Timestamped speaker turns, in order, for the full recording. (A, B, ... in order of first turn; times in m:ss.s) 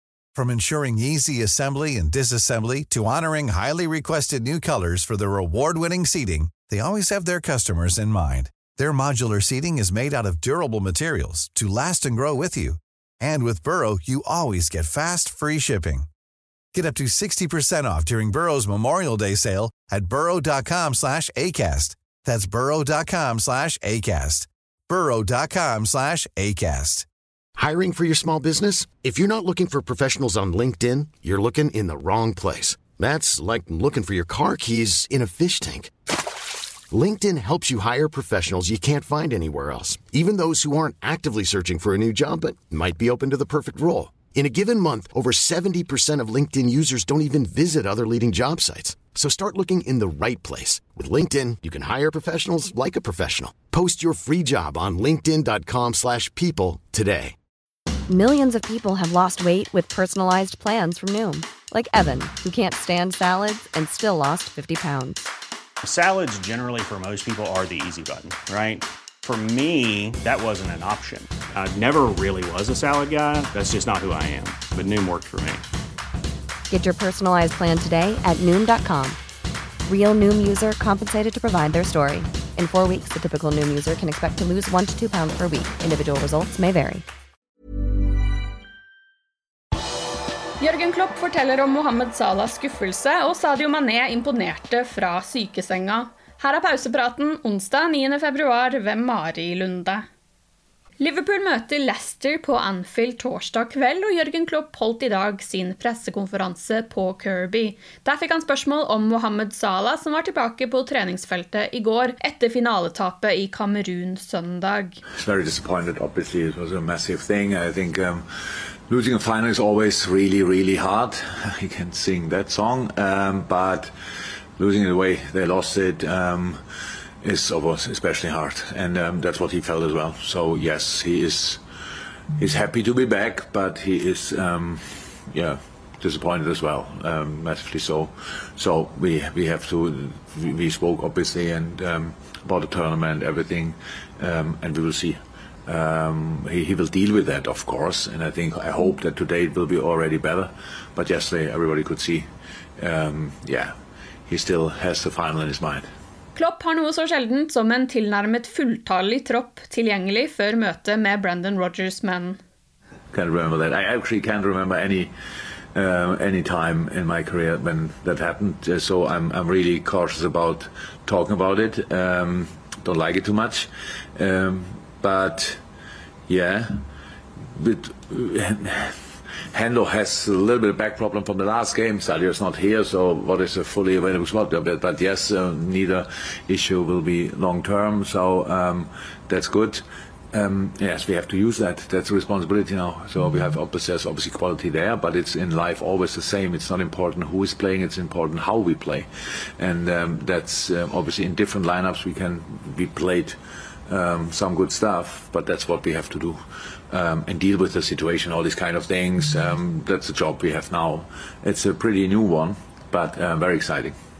0:00.3-0:16.1 A
0:16.7-0:27.1 A
0:27.6-0:35.9 B
0:36.9-0:57.3 B
0:58.1-1:05.3 C
1:05.8-1:15.6 D
1:16.7-1:19.2 C
1:19.8-1:27.0 C
1:30.6-1:40.0 E
1:41.0-1:55.0 E
1:55.1-1:58.2 F
1:58.9-2:03.9 F
2:04.6-2:06.6 F
2:07.2-2:11.6 F
2:12.4-2:32.3 F
2:32.8-2:33.7 F
2:34.3-2:35.9 F
2:36.3-2:42.4 E
2:43.1-2:45.1 F
2:45.7-2:55.6 F
2:56.3-2:56.8 F
2:57.6-2:58.9 F
2:59.5-3:26.4 F
3:26.9-3:34.0 F